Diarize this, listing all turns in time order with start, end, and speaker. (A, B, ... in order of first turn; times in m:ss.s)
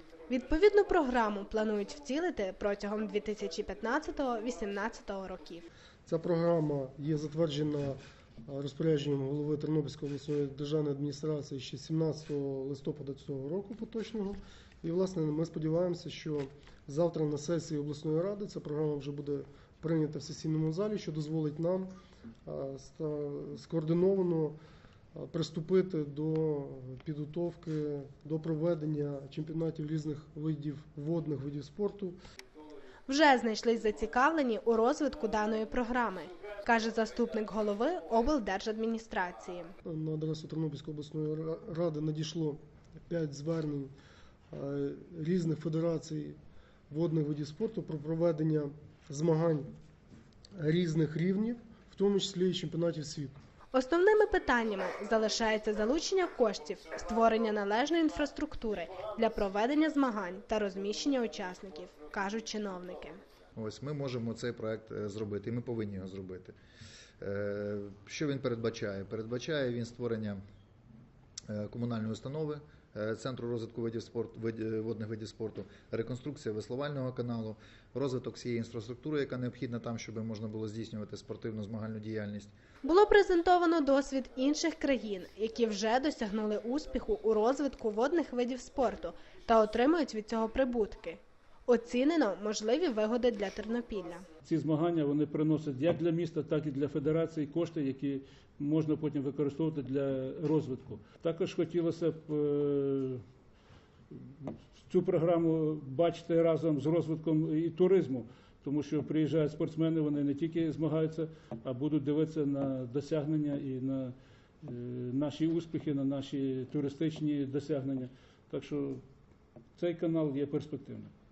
0:00.3-0:05.7 A
0:06.1-0:21.9 B
0:22.4-0:24.6 B
0:25.1-0:32.2 B
0:33.1-0:39.7 A
0:39.8-0:43.9 B
0:44.5-0:46.4 B
0:46.9-0:49.7 B
0:50.6-0:53.3 B
0:53.7-1:03.2 A
1:03.5-1:06.5 C
1:07.2-1:10.4 C
1:11.5-1:22.5 C
1:22.8-1:34.2 A
1:34.4-1:43.2 D
1:44.1-1:59.0 D
1:59.8-2:01.1 D